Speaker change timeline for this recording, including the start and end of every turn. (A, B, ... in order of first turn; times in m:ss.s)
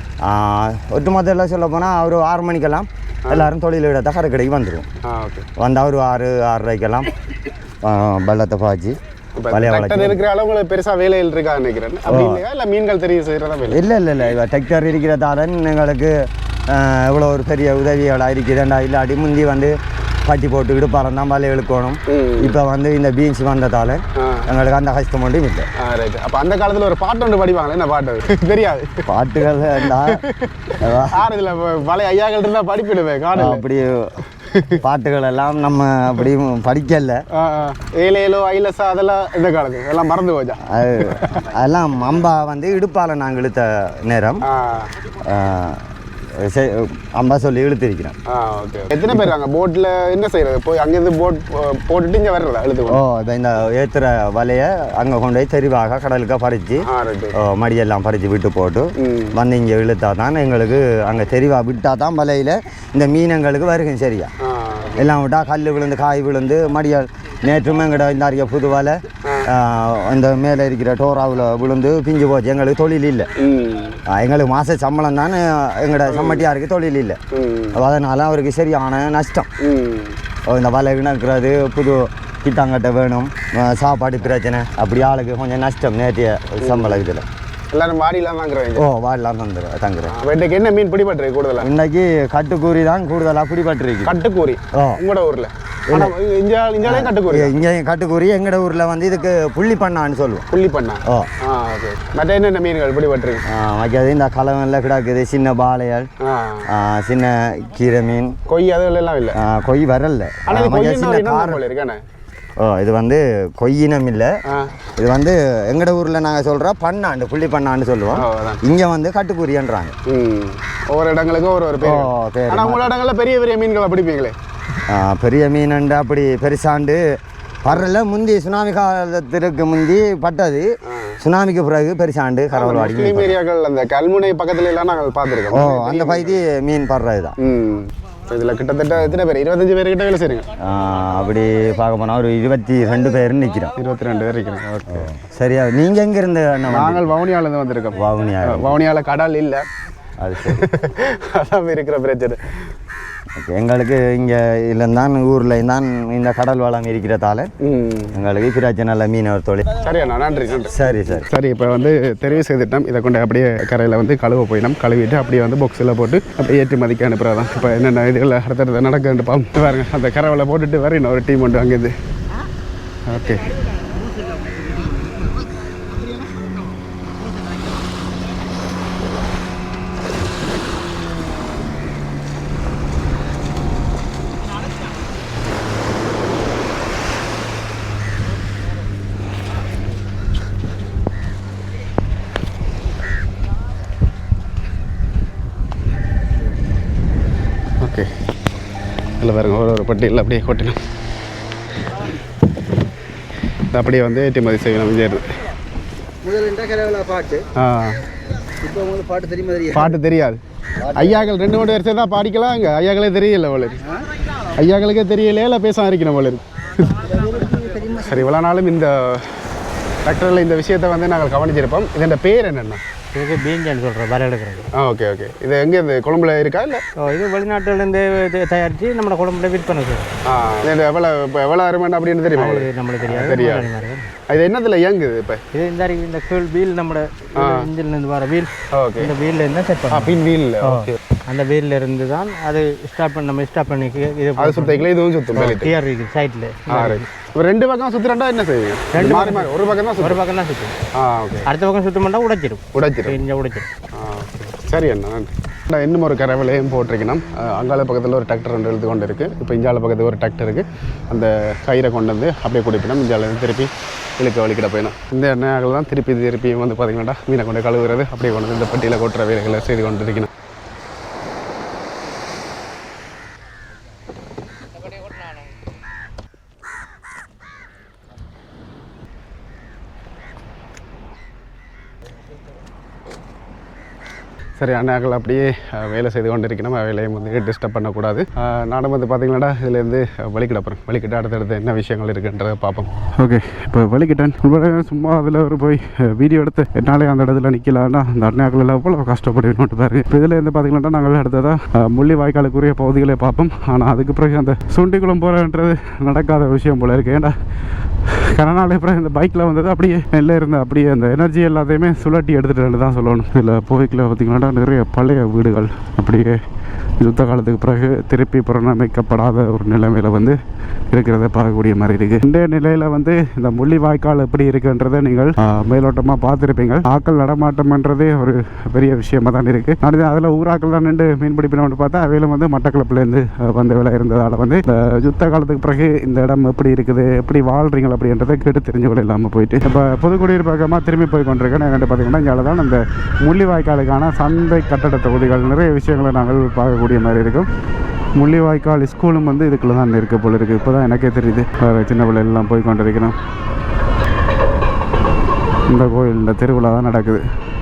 0:00.2-0:04.8 A
0:05.0-0:05.5 B
0:05.6-0:07.1 A
0:07.8-0:09.0 A
0:09.4-0:13.8 B
0:09.5-0:10.2 A
0:12.1-0:12.4 A
0:13.7-0:25.7 A
0:22.1-0:22.6 B
0:24.2-0:24.5 B
0:25.8-0:29.1 B
0:29.0-0:30.2 A
0:29.7-0:33.6 B
0:30.8-0:31.3 A
0:33.3-0:34.1 A
0:34.4-0:34.8 B
0:34.8-0:37.2 A
0:37.3-0:41.4 B
0:40.6-0:44.4 A
0:44.4-0:44.9 B
0:45.2-0:48.1 A
0:48.3-0:53.0 B
0:52.9-1:04.3 A
0:56.9-0:57.4 B
0:59.0-0:59.4 B
1:04.4-1:05.1 B
1:04.9-1:13.3 A
1:09.2-1:09.5 B
1:13.4-1:14.0 B
1:14.1-1:17.2 A
1:16.1-1:16.4 B
1:17.3-1:17.8 B
1:17.7-1:19.5 A
1:19.6-1:20.2 B
1:20.5-1:27.3 A
1:26.6-1:27.0 B
1:27.7-1:28.8 B
1:28.8-1:30.2 A
1:30.1-1:31.7 B
1:31.6-1:34.2 A
1:34.0-1:37.5 B
1:34.7-1:35.0 A
1:35.9-1:36.1 A
1:36.8-1:40.5 A
1:40.5-1:43.4 B
1:41.0-1:41.3 A
1:43.5-1:46.1 A
1:46.2-1:46.7 B
1:46.7-1:48.4 A
1:48.5-1:49.4 B
1:49.3-1:51.6 A
1:50.5-1:52.0 B
1:52.6-1:54.3 A
1:54.5-1:54.7 B
1:55.0-2:00.0 A
1:58.1-1:58.6 B
2:00.1-2:04.3 B
2:01.8-2:02.9 A
2:04.9-2:10.7 A
2:10.8-2:11.2 B
2:11.2-2:13.4 A
2:12.5-2:16.4 B
2:15.5-2:17.4 A
2:17.4-2:20.5 B
2:20.6-2:23.7 A
2:23.8-2:25.1 B
2:24.9-2:27.1 A
2:26.7-2:29.6 B
2:27.9-2:28.8 A
2:30.2-2:30.6 A
2:30.4-2:32.4 B
2:33.4-2:37.5 A
2:37.6-2:38.2 B
2:38.1-2:39.6 A
2:39.7-2:51.9 B
2:40.7-2:41.2 A
2:53.0-2:53.5 B
3:17.8-3:18.1 B
3:19.2-3:20.8 B
3:23.7-3:25.4 B
3:27.5-3:28.0 B
3:29.1-3:33.9 B
3:34.5-3:39.4 B
3:40.0-3:42.8 B
3:43.1-3:44.7 C
3:44.8-3:46.8 B
3:47.0-3:50.1 C
3:50.3-3:53.7 B
3:52.3-3:54.1 C
3:54.3-3:55.4 B
3:55.5-4:07.0 C
3:57.4-3:57.7 B
3:58.7-3:59.1 B
3:59.9-4:01.0 B
4:04.4-4:05.7 B
4:06.7-4:10.2 B
4:08.9-4:10.8 C
4:10.9-4:11.4 B
4:11.4-4:13.7 C
4:12.7-4:13.2 B
4:13.9-4:30.3 B
4:44.6-4:52.9 B
4:53.2-5:07.4 D
5:08.0-5:16.4 D
5:17.0-5:20.4 D
5:20.9-5:47.5 D
5:48.2-5:53.2 D
5:55.7-5:57.2 D